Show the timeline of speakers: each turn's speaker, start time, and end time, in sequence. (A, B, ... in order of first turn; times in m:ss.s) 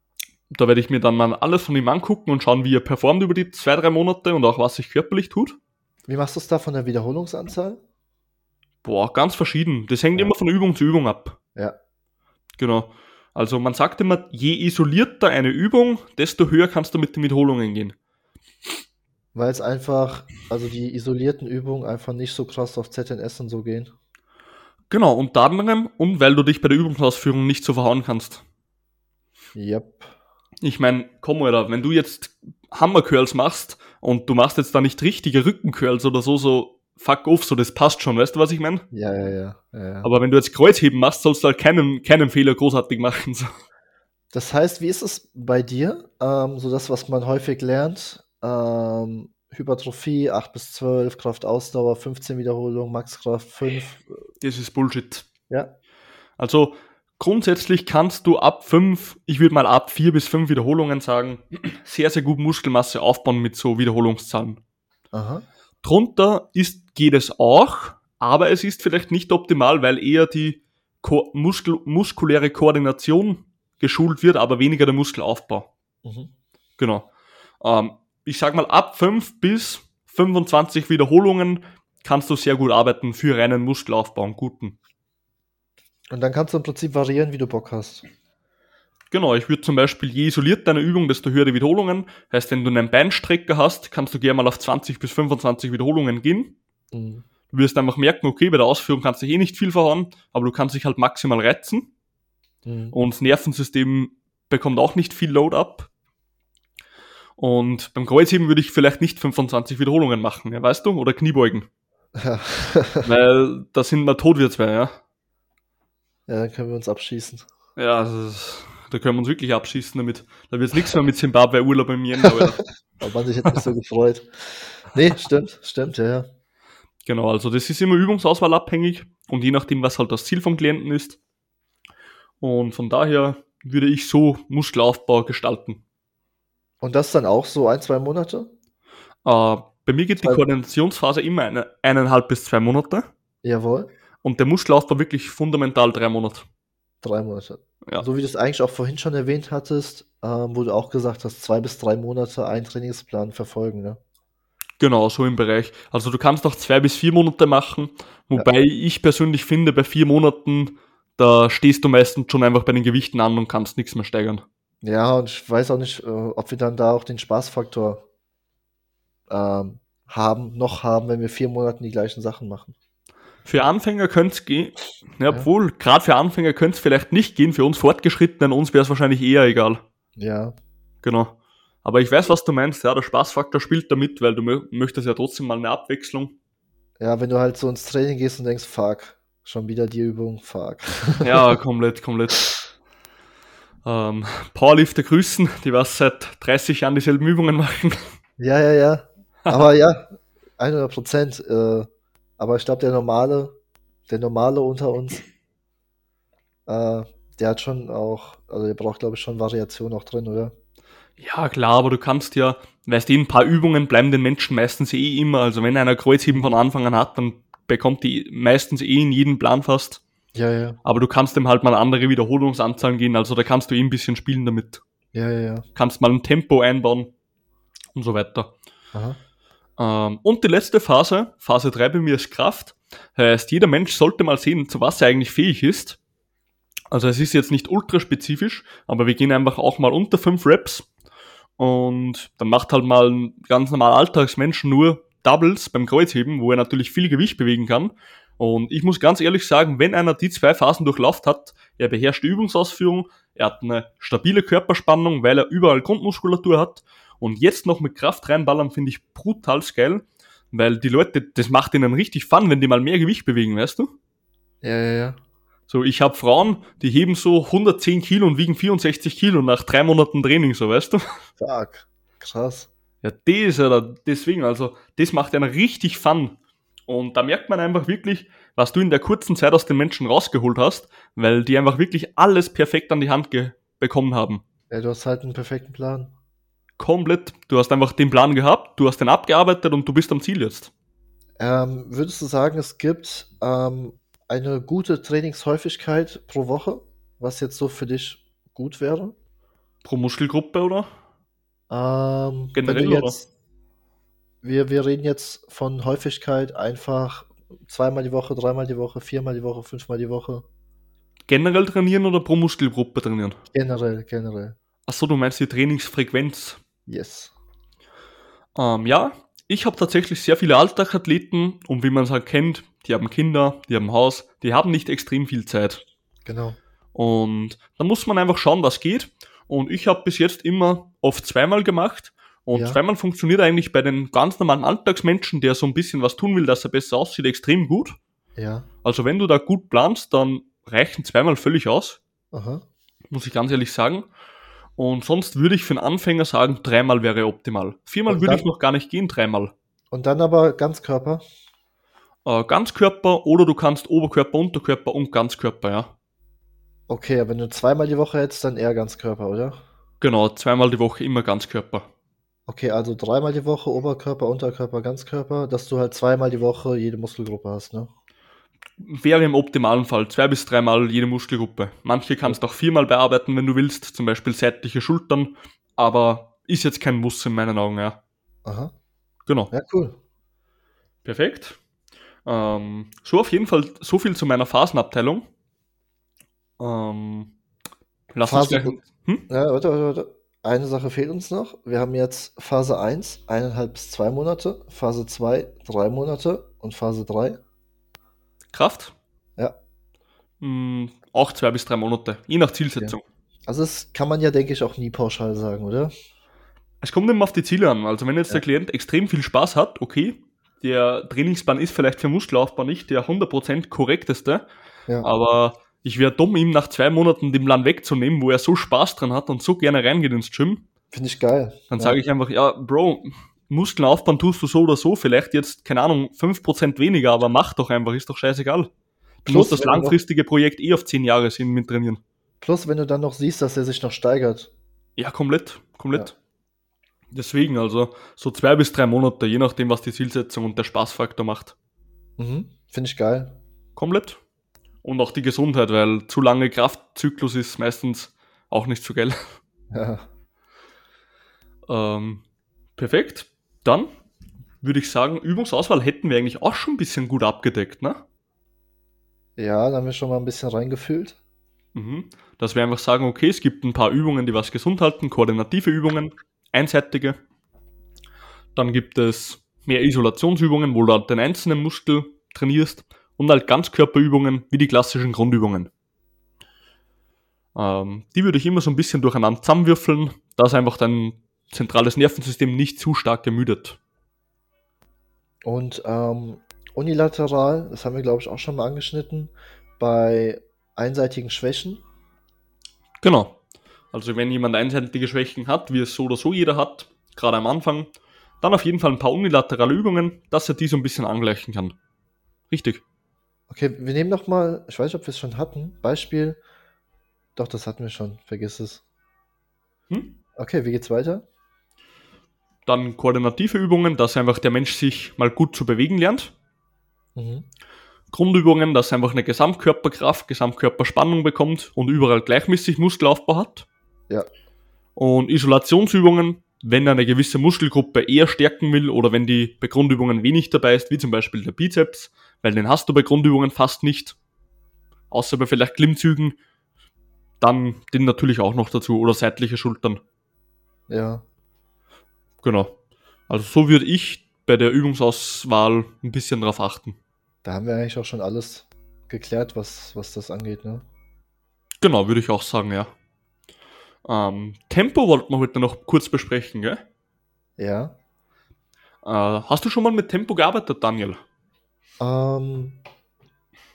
0:00.5-0:05.6 A
0:06.1-0:07.8 B
0:08.8-0:11.4 A
0:12.6-0:17.9 A
0:19.3-0:23.9 B
0:24.9-0:28.4 A
0:29.5-0:30.1 B
0:30.6-0:38.8 A
0:38.9-0:40.1 B
0:40.0-0:43.5 A
0:44.3-0:54.2 B
0:54.4-0:55.2 A
0:56.4-1:04.6 A
1:05.1-1:05.4 B
1:05.8-1:15.7 A
1:16.0-1:16.3 B
1:16.8-1:17.1 A
1:17.6-1:24.8 A
1:26.1-1:28.0 B
1:29.1-1:36.6 A
1:36.9-1:37.2 B
1:37.5-1:41.9 A
1:42.6-1:43.0 B
1:42.9-1:45.9 A
1:47.4-1:51.7 A
1:52.2-1:53.1 B
1:53.0-1:55.0 A
1:56.3-1:57.4 B
1:57.8-2:02.6 A
2:03.0-2:06.2 B
2:07.0-2:11.2 A
2:12.4-2:15.8 A
2:16.8-2:18.5 B
2:19.2-2:23.1 A
2:23.4-2:23.9 B
2:24.2-2:26.4 A
2:27.0-2:34.0 B
2:34.8-2:44.4 A
2:44.8-2:48.0 B
2:49.3-2:52.7 B
2:53.4-2:59.8 A
3:00.2-3:00.5 B
3:01.0-3:06.3 A
3:07.0-3:11.5 B
3:11.2-3:12.4 A
3:13.8-3:18.1 A
3:18.4-3:21.9 B
3:22.4-3:23.5 B
3:24.1-3:25.2 B
3:26.6-3:30.5 B
3:31.2-3:40.0 A
3:40.3-3:40.8 B
3:40.8-3:44.8 A
3:45.1-3:45.6 B
3:45.7-3:47.1 A
3:47.9-3:48.5 A
3:48.9-3:49.2 B
3:49.8-3:56.0 A
3:56.9-4:00.9 A
4:01.6-4:23.9 A
4:24.6-4:25.2 B
4:25.7-4:31.0 A
4:31.4-4:32.7 B
4:33.0-4:36.4 A
4:36.9-4:44.4 A
4:44.7-4:46.1 B
4:46.8-4:50.7 A
4:51.4-4:59.1 B
4:59.8-5:00.9 A
5:01.7-5:03.3 B
5:02.5-5:03.2 A
5:04.4-5:10.4 B
5:11.3-5:13.4 A
5:13.5-5:14.6 B
5:14.9-5:16.6 A
5:16.9-5:17.3 B
5:18.6-5:25.8 A
5:26.2-5:26.6 B
5:26.9-5:38.0 A
5:32.5-5:32.8 B
5:38.4-5:38.7 B
5:38.8-5:42.0 A
5:42.3-5:42.6 B
5:43.1-5:44.1 A
5:44.8-5:49.5 A
5:48.1-5:48.4 B
5:49.9-5:51.2 B
5:52.2-5:55.9 A
5:56.9-5:59.6 B
6:00.0-6:01.9 A
6:02.5-6:07.9 B
6:08.8-6:18.0 A
6:18.4-6:18.7 B
6:19.5-6:20.0 B
6:21.0-6:21.6 A
6:22.2-6:25.2 A
6:26.6-6:27.3 A
6:28.1-6:29.2 A
6:28.2-6:28.8 B
6:29.3-6:37.4 B
6:38.5-6:38.9 A
6:40.4-6:43.0 A
6:42.8-6:45.9 B
6:46.8-6:54.4 A
6:55.0-7:00.6 A
7:00.9-7:02.0 B
7:01.7-7:08.7 A
7:09.2-7:12.0 A
7:09.3-7:10.0 B
7:12.4-7:14.5 B
7:15.0-7:16.1 A
7:17.1-7:21.5 A
7:22.2-7:23.3 B
7:23.8-7:24.2 A
7:24.8-7:29.2 A
7:29.7-7:30.0 B
7:31.7-7:32.2 A
7:32.8-7:33.9 A
7:34.6-7:38.0 A
7:39.4-7:41.2 B
7:41.7-7:47.2 A
7:48.5-7:55.7 A
7:57.5-8:03.8 A
8:05.4-8:11.8 B
8:13.0-8:13.4 A
8:13.9-8:17.9 A
8:18.4-8:21.8 A
8:22.5-8:22.8 A
8:23.5-8:26.4 B
8:27.4-8:28.8 B
8:30.4-8:31.2 B
8:32.6-8:36.3 A
8:37.1-8:37.4 B
8:38.1-8:43.6 A
8:45.0-8:54.2 A
8:55.1-8:56.4 A
8:57.4-9:00.0 A
9:00.9-9:01.2 B
9:02.4-9:02.7 A
9:03.3-9:07.0 A
9:07.4-9:10.8 B
9:11.8-9:12.9 A
9:14.0-9:16.8 A
9:17.6-9:18.0 B
9:19.0-9:21.2 A
9:22.0-9:22.8 B